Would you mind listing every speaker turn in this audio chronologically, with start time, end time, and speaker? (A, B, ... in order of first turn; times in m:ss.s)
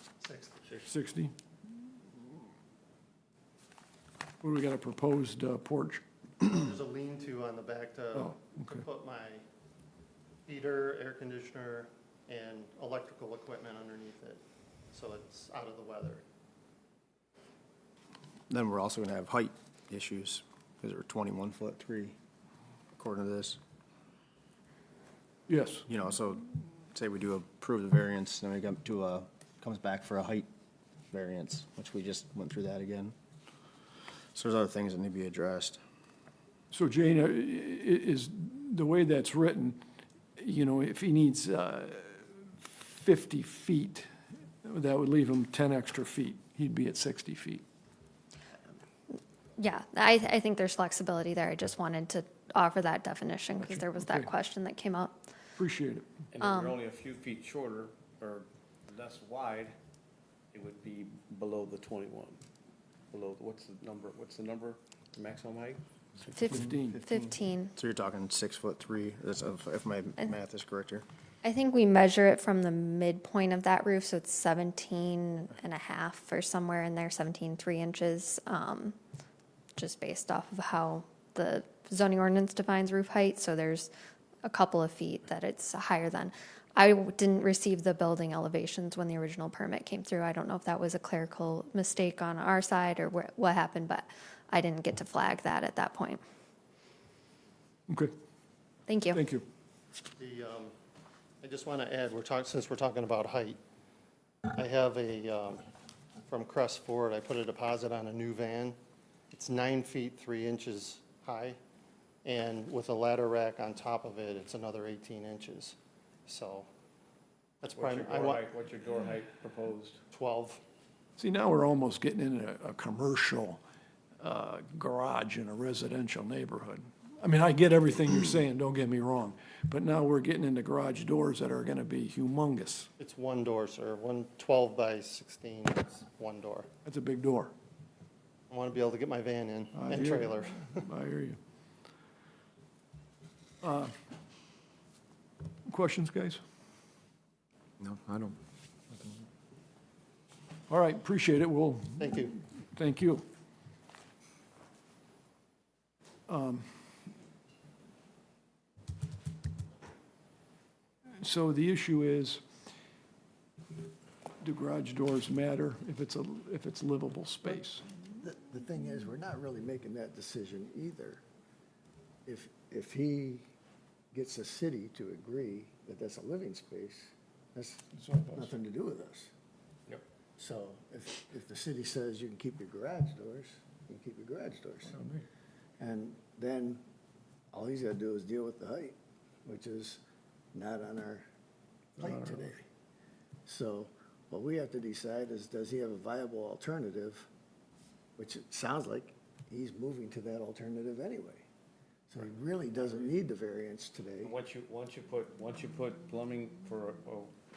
0:00.2-0:00.6 A
0:00.9-0:01.3 B
0:04.4-0:06.0 B
0:06.4-0:09.4 A
0:08.2-0:08.8 B
0:10.5-0:14.4 A
0:14.9-0:16.2 A
0:18.5-0:22.2 C
0:22.9-0:23.6 C
0:25.5-0:25.9 B
0:25.9-0:30.5 C
0:31.1-0:33.2 C
0:34.3-0:35.8 C
0:36.7-0:39.8 B
0:40.4-0:44.1 B
0:44.6-0:47.6 B
0:49.6-0:55.2 D
0:53.6-0:54.3 B
0:55.6-0:56.1 B
0:56.3-0:59.8 E
1:00.5-1:02.4 E
1:03.1-1:06.4 E
1:06.5-1:07.0 B
1:07.2-1:07.7 D
1:07.7-1:11.1 C
1:11.4-1:19.0 D
1:19.8-1:23.9 D
1:24.4-1:36.2 D
1:38.9-1:39.2 D
1:39.1-1:39.4 B
1:40.2-1:40.7 A
1:41.4-1:43.6 A
1:44.6-1:45.6 A
1:46.3-1:48.8 A
1:49.3-1:51.6 A
1:52.2-1:55.8 A
1:56.3-1:56.7 A
1:57.6-1:58.5 A
1:57.7-2:00.0 E
2:00.1-2:00.6 A
2:01.2-2:03.6 B
2:04.2-2:12.9 B
2:13.0-2:16.7 A
2:16.8-2:17.5 B
2:18.5-2:20.8 A
2:19.8-2:21.4 B
2:23.6-2:23.9 B
2:25.7-2:26.4 B
2:30.7-2:33.2 B
2:32.0-2:32.4 A
2:36.3-2:36.7 B
2:41.2-2:42.4 B
2:44.4-2:47.8 B
2:48.2-2:51.2 F
2:52.3-2:53.4 F
2:54.1-2:59.3 F
2:58.0-2:58.5 B
3:00.4-3:05.0 F
3:05.8-3:06.8 F
3:07.5-3:10.0 F
3:10.5-3:11.3 F
3:12.0-3:12.7 F
3:12.0-3:12.4 B
3:13.5-3:17.3 F
3:18.2-3:21.4 F
3:22.1-3:24.4 F
3:24.2-3:27.3 E